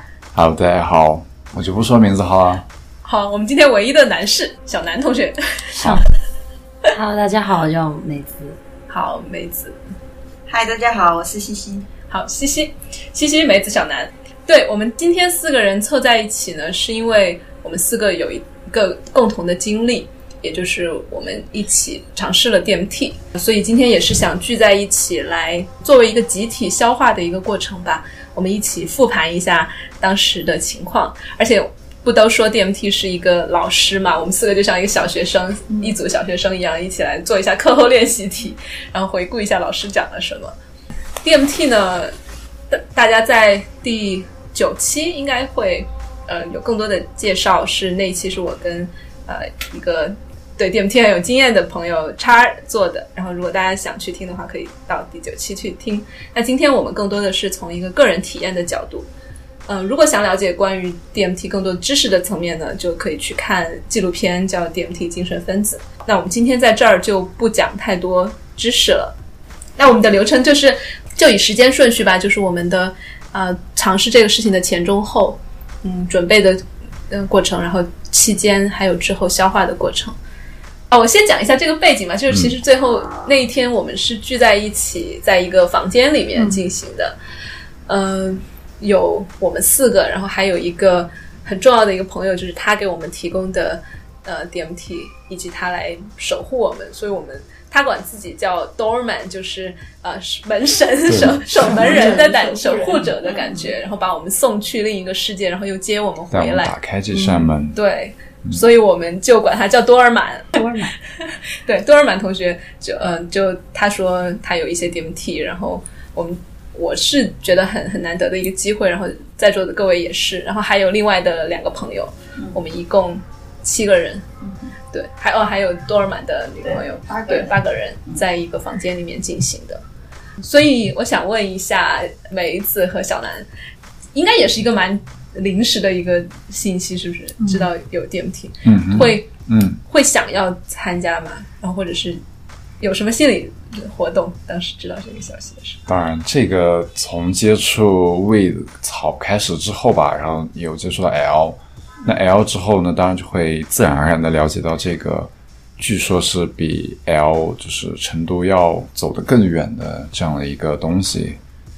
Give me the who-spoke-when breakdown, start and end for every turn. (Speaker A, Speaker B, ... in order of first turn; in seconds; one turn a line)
Speaker A: 0.3-2.6
Speaker B: 3.0-6.0
Speaker C: 5.8-6.0
Speaker C: 6.9-8.6
Speaker B: 8.9-9.8
Speaker D: 10.5-11.8
Speaker B: 12.1-40.5
Speaker B: 41.2-42.1
Speaker B: 42.7-59.1
Speaker B: 59.7-69.1
Speaker B: 69.8-80.2
Speaker B: 80.9-87.1
Speaker D: 82.8-83.3
Speaker B: 87.9-106.7
Speaker A: 101.1-101.4
Speaker C: 101.6-103.0
Speaker D: 101.7-103.5
Speaker A: 106.3-107.8
Speaker C: 107.1-107.5
Speaker B: 107.7-110.5
Speaker C: 110.5-110.9
Speaker B: 111.2-124.2
Speaker B: 124.9-129.8
Speaker D: 126.6-127.5
Speaker B: 130.4-133.4
Speaker B: 134.1-139.3
Speaker C: 137.4-137.7
Speaker A: 138.6-139.8
Speaker B: 139.8-142.2
Speaker B: 142.8-145.8
Speaker A: 145.9-161.4